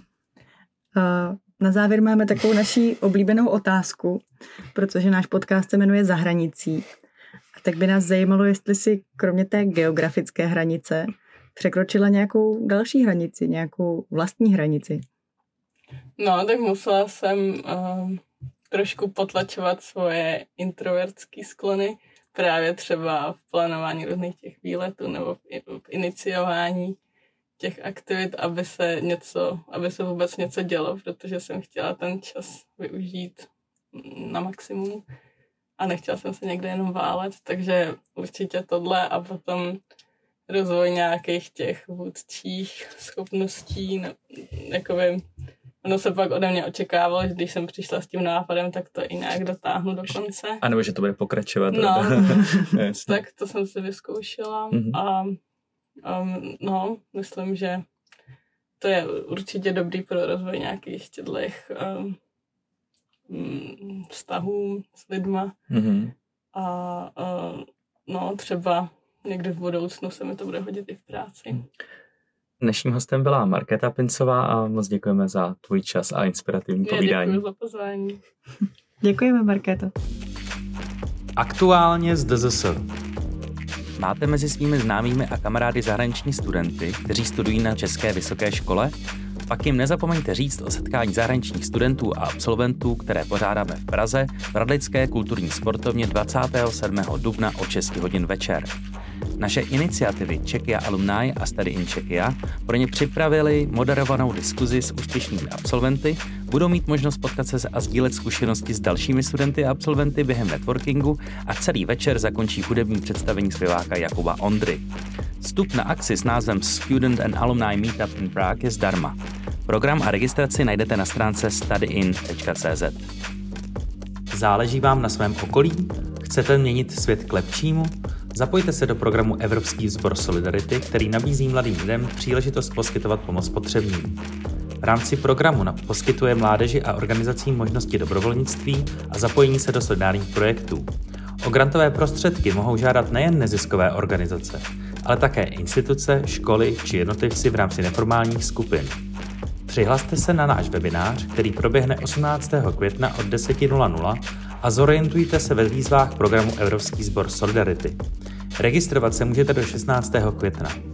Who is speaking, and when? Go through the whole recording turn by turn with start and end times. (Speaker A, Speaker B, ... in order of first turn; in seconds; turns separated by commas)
Speaker A: 0.9-6.8, Speaker A: 7.6-15.0, Speaker B: 16.2-27.0, Speaker B: 27.6-35.0, Speaker B: 35.8-39.8, Speaker B: 40.5-45.2, Speaker B: 45.8-50.6, Speaker C: 50.6-53.2, Speaker B: 51.7-55.4, Speaker C: 54.7-55.0, Speaker B: 56.0-57.8, Speaker B: 58.8-62.2, Speaker B: 63.3-65.5, Speaker C: 65.7-66.1, Speaker B: 66.5-71.6, Speaker C: 72.6-77.4, Speaker B: 76.8-78.2, Speaker A: 79.0-79.9, Speaker D: 81.4-82.8, Speaker D: 84.0-88.9, Speaker D: 89.5-98.7, Speaker D: 99.4-114.8, Speaker D: 115.4-119.2, Speaker D: 119.7-123.1, Speaker D: 124.3-134.2, Speaker D: 134.8-140.9, Speaker D: 141.4-149.0, Speaker D: 149.7-158.0, Speaker D: 158.6-160.8